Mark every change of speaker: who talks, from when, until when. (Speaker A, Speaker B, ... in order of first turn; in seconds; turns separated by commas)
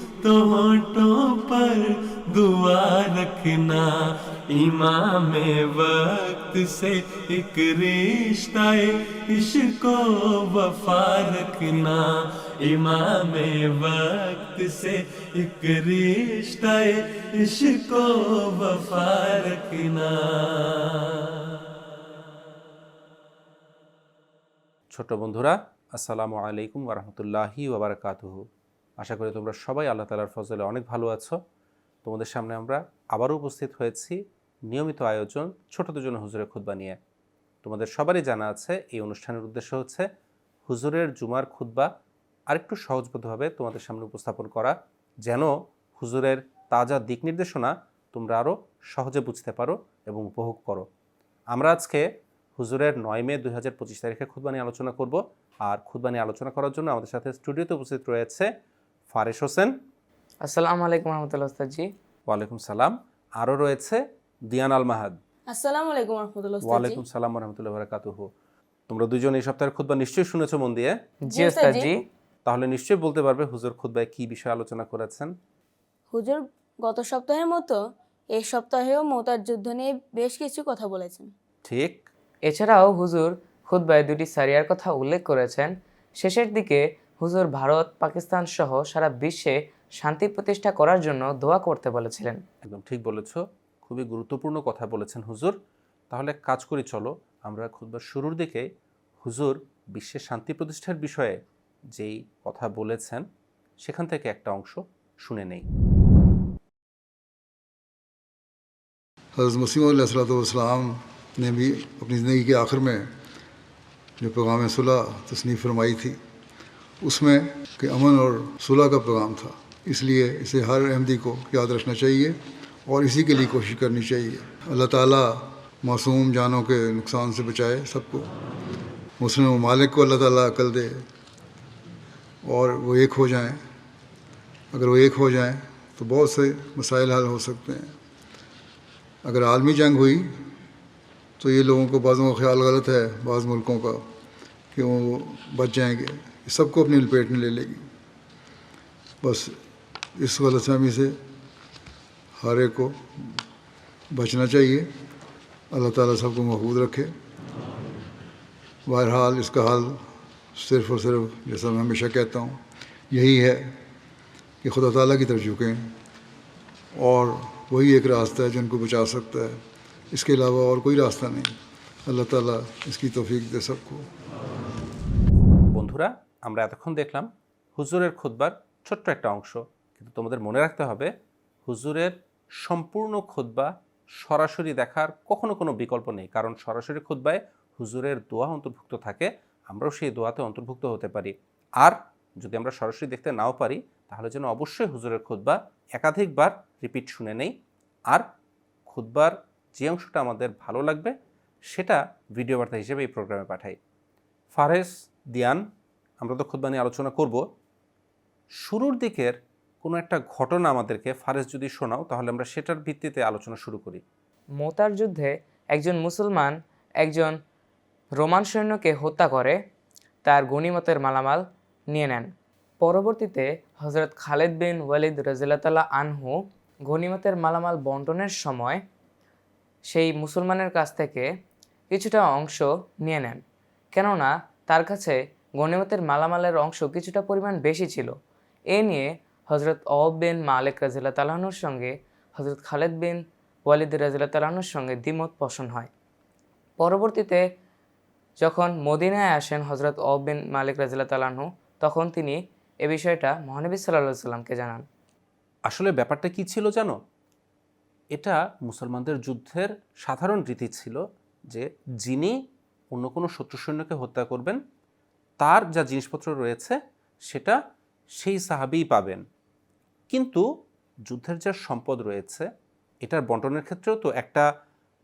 Speaker A: 0.2-3.9, Speaker A: 4.5-12.0, Speaker A: 12.6-20.7, Speaker B: 24.9-28.4, Speaker B: 29.0-31.4, Speaker B: 32.0-37.0, Speaker B: 37.6-40.0, Speaker B: 40.7-41.9, Speaker B: 42.5-50.9, Speaker B: 51.5-52.0, Speaker B: 52.6-58.5, Speaker B: 59.1-59.7, Speaker C: 60.4-61.9, Speaker B: 62.3-65.2, Speaker D: 65.5-67.0, Speaker B: 66.6-68.3, Speaker B: 68.9-71.0, Speaker C: 71.3-72.0, Speaker D: 71.3-71.9, Speaker B: 72.5-75.3, Speaker D: 76.1-77.8, Speaker D: 78.3-81.3, Speaker B: 81.6-82.1, Speaker C: 82.5-92.4, Speaker B: 92.6-95.5, Speaker B: 96.1-98.7, Speaker B: 99.2-101.4, Speaker B: 101.9-103.2, Speaker B: 103.8-105.7, Speaker E: 109.4-113.1, Speaker E: 114.2-116.2, Speaker E: 117.0-128.2, Speaker E: 129.2-131.0, Speaker E: 132.4-133.6, Speaker E: 134.7-137.9, Speaker E: 139.2-140.3, Speaker E: 141.4-144.0, Speaker E: 144.8-147.8, Speaker E: 149.2-149.5, Speaker E: 150.2-151.1, Speaker E: 152.4-152.9, Speaker E: 154.1-154.9, Speaker E: 155.7-157.1, Speaker E: 158.9-160.0, Speaker E: 160.6-162.6, Speaker E: 163.1-163.7, Speaker E: 164.6-165.8, Speaker E: 166.9-169.6, Speaker E: 170.1-171.5, Speaker E: 172.1-174.0, Speaker B: 175.7-181.1, Speaker B: 181.7-197.5, Speaker B: 198.9-201.1, Speaker B: 201.7-203.8, Speaker B: 204.5-205.6, Speaker B: 206.2-207.4, Speaker B: 208.6-214.0, Speaker C: 214.6-217.3, Speaker C: 218.2-219.6, Speaker C: 220.2-222.3, Speaker C: 222.8-228.8, Speaker C: 229.9-231.2, Speaker C: 231.9-233.4, Speaker C: 233.9-238.1, Speaker C: 238.7-245.9, Speaker C: 246.8-247.4, Speaker C: 248.4-254.8, Speaker B: 255.7-256.9, Speaker B: 258.1-261.0, Speaker B: 261.5-262.3, Speaker B: 262.9-264.6, Speaker B: 265.4-266.8, Speaker B: 267.3-267.6, Speaker B: 268.2-269.2, Speaker B: 270.1-270.4, Speaker B: 271.1-272.5, Speaker B: 273.0-274.4